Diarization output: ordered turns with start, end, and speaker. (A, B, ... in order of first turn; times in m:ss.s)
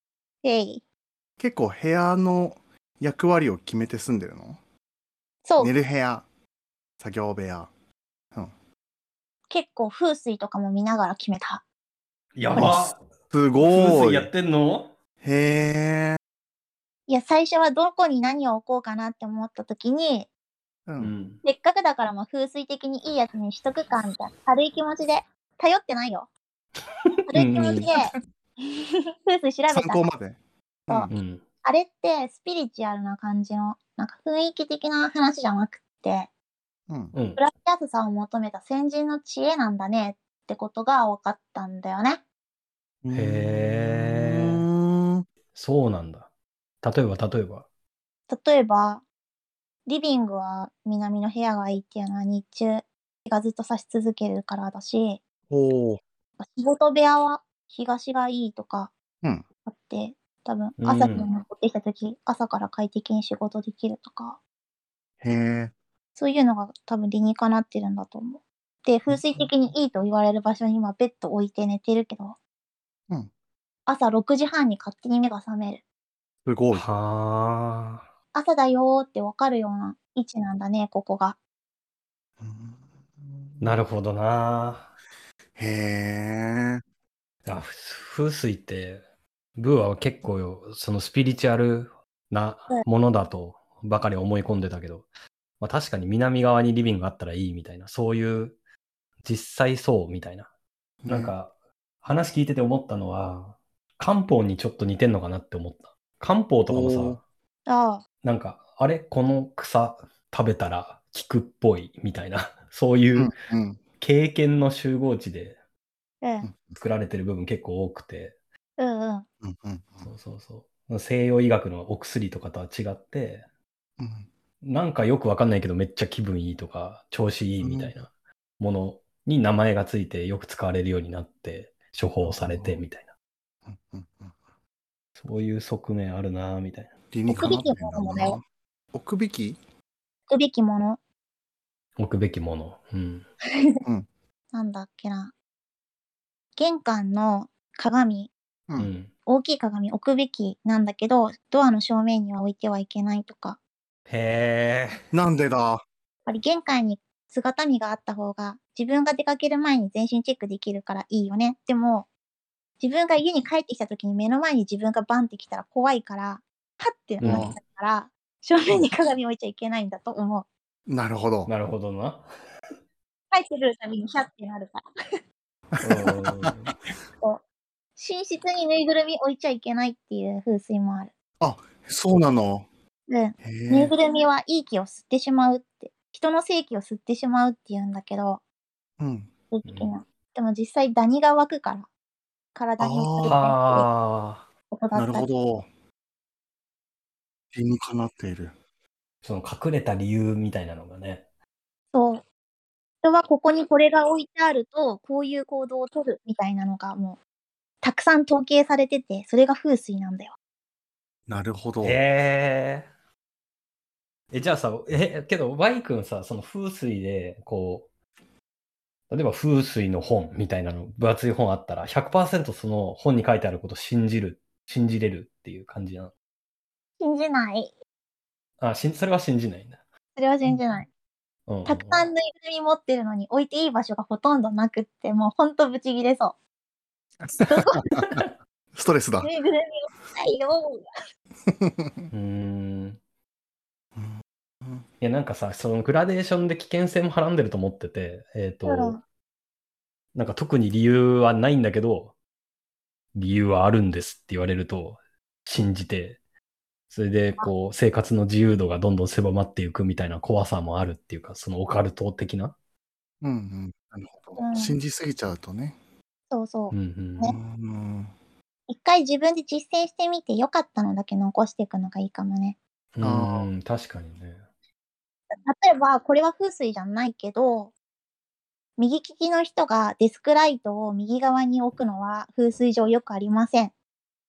0:00.4-0:00.8 A
0:01.4-0:04.6 B
0:05.4-0:05.7 A
0:05.6-0:06.3 B
0:07.0-0:07.7 B
0:09.5-0:11.6 A
0:12.4-0:13.0 C
0:12.5-0:14.3 B
0:13.6-0:14.9 C
0:15.2-0:16.2 B
0:17.1-0:20.3 A
0:20.8-0:21.1 B
0:21.0-0:21.4 C
0:21.4-0:26.3 A
0:27.0-0:27.9 C
0:27.3-0:28.1 A
0:28.7-0:30.0 A
0:29.7-0:31.1 B
0:31.1-0:31.4 C
0:31.6-0:36.3 A
0:36.9-0:37.1 B
0:37.1-0:37.4 C
0:37.4-0:42.2 A
0:43.0-0:45.2 B
0:43.1-0:44.6 C
0:45.5-0:46.3 C
0:46.8-0:47.6 C
0:48.3-0:49.0 A
0:49.8-0:55.2 A
0:55.5-0:56.0 B
0:56.4-0:58.9 A
0:59.6-1:04.4 A
1:00.8-1:01.3 C
1:05.2-1:05.7 B
1:06.2-1:12.4 A
1:13.8-1:15.8 A
1:16.4-1:16.8 B
1:16.7-1:18.1 C
1:18.3-1:21.4 A
1:22.4-1:23.7 B
1:23.6-1:24.9 C
1:25.6-1:26.8 B
1:27.4-1:29.0 C
1:29.6-1:35.1 C
1:35.6-1:38.6 C
1:39.2-1:40.5 C
1:41.0-1:41.3 B
1:41.1-1:47.2 C
1:46.7-1:47.2 B
1:47.7-1:48.0 A
1:48.2-1:53.3 C
1:53.1-1:53.8 B
1:54.0-1:55.6 C
1:56.2-1:56.5 A
1:56.4-1:56.8 B
1:56.8-1:58.4 C
1:58.8-1:59.2 A
1:59.4-2:00.1 B
2:00.0-2:03.4 C
2:04.0-2:04.3 B
2:04.6-2:13.1 C
2:07.6-2:07.9 B
2:12.2-2:12.8 B
2:13.6-2:14.4 B
2:15.2-2:17.5 C
2:17.1-2:19.6 B
2:17.3-2:18.4 A
2:20.3-2:21.0 A
2:22.0-2:23.3 C
2:24.5-2:25.3 A
2:26.6-2:28.3 A
2:28.8-2:29.1 C
2:29.2-2:33.6 A
2:34.1-2:35.0 C
2:35.1-2:35.8 B
2:36.2-2:42.1 A
2:42.8-2:50.5 A
2:47.2-2:47.5 C
2:47.2-2:47.6 B
2:50.9-2:51.5 B
2:51.5-2:52.2 C
2:53.3-2:54.8 A
2:55.7-2:56.5 B
2:55.8-2:56.7 C
2:58.0-3:01.1 A
3:01.4-3:02.7 B
3:03.1-3:08.4 A
3:03.4-3:03.9 B
3:09.0-3:09.3 B
3:09.5-3:11.9 A
3:09.6-3:09.9 C
3:12.5-3:13.9 A
3:12.8-3:13.4 B
3:13.2-3:14.5 C
3:14.7-3:15.3 A
3:14.9-3:15.7 B
3:17.5-3:18.5 B
3:19.2-3:21.2 C
3:21.9-3:22.2 A
3:23.0-3:27.2 A
3:27.8-3:30.4 A
3:31.3-3:32.0 B
3:31.8-3:32.9 C
3:34.3-3:37.9 C
3:39.1-3:46.1 C
3:47.0-3:47.7 A
3:48.6-3:49.8 C
3:50.1-3:50.9 A
3:51.5-3:52.0 C
3:51.6-3:56.4 A
3:57.2-3:58.2 B
3:57.5-3:57.8 A
3:58.0-3:58.3 C
3:58.7-3:59.3 B
3:59.2-4:00.8 A
4:01.5-4:02.1 B
4:02.1-4:03.0 C
4:04.0-4:04.8 B
4:05.0-4:09.0 C
4:08.6-4:09.0 A
4:10.1-4:12.1 C
4:13.1-4:16.2 C
4:16.9-4:22.5 C
4:23.2-4:25.8 B
4:24.4-4:24.8 A
4:26.3-4:27.3 A
4:26.7-4:27.4 C
4:27.2-4:28.1 B
4:28.7-4:32.6 A
4:32.9-4:34.4 C
4:33.0-4:33.5 B
4:35.4-4:37.7 A
4:38.8-4:43.7 A